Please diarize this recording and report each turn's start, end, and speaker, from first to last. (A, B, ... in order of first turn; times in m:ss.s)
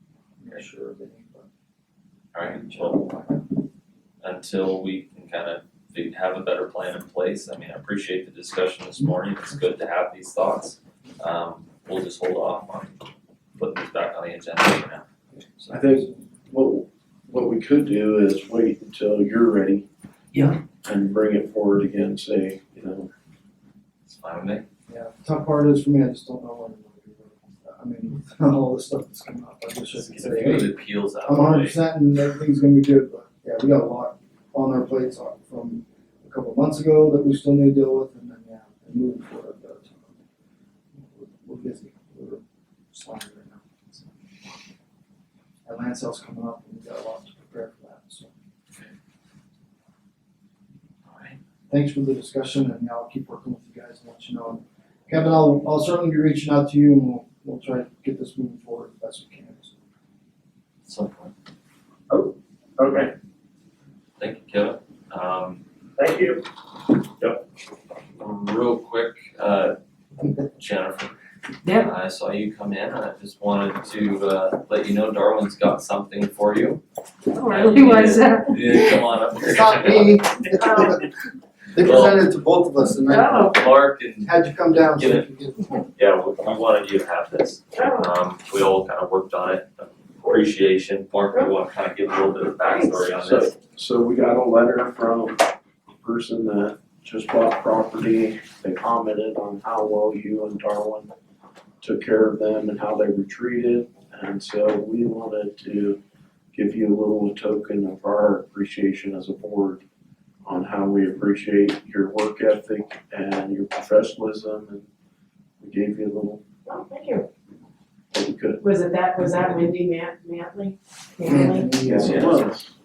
0:00.4-0:01.4 A
0:02.3-0:03.1 B
0:02.6-0:03.4 A
0:04.2-0:12.9 B
0:13.6-0:15.0 B
0:15.3-0:16.2 A
0:15.7-0:19.8 C
0:20.8-0:23.1 C
0:24.0-0:24.6 B
0:24.9-0:40.2 A
0:29.9-0:31.8 B
0:40.9-0:44.1 A
0:45.6-0:48.3 A
0:51.1-0:51.4 B
0:51.7-0:59.7 A
1:00.8-1:01.3 B
1:02.1-1:03.1 C
1:04.2-1:05.6 B
1:06.0-1:06.4 C
1:08.2-1:09.8 B
1:10.5-1:11.1 B
1:11.6-1:16.8 B
1:17.3-1:19.0 D
1:17.4-1:21.0 B
1:19.4-1:21.0 A
1:21.7-1:23.6 A
1:21.8-1:22.3 B
1:23.0-1:23.6 D
1:23.4-1:25.3 B
1:24.2-1:25.9 A
1:25.9-1:33.6 B
1:27.7-1:28.1 D
1:32.6-1:33.0 D
1:33.1-1:35.4 C
1:36.0-1:41.1 C
1:41.8-1:46.0 C
1:46.5-1:49.8 C
1:50.4-1:54.8 C
1:55.6-1:56.4 C
1:56.6-1:57.3 D
1:58.1-1:58.6 C
1:58.6-2:01.9 D
2:01.2-2:02.3 A
2:01.8-2:02.7 C
2:02.0-2:02.4 B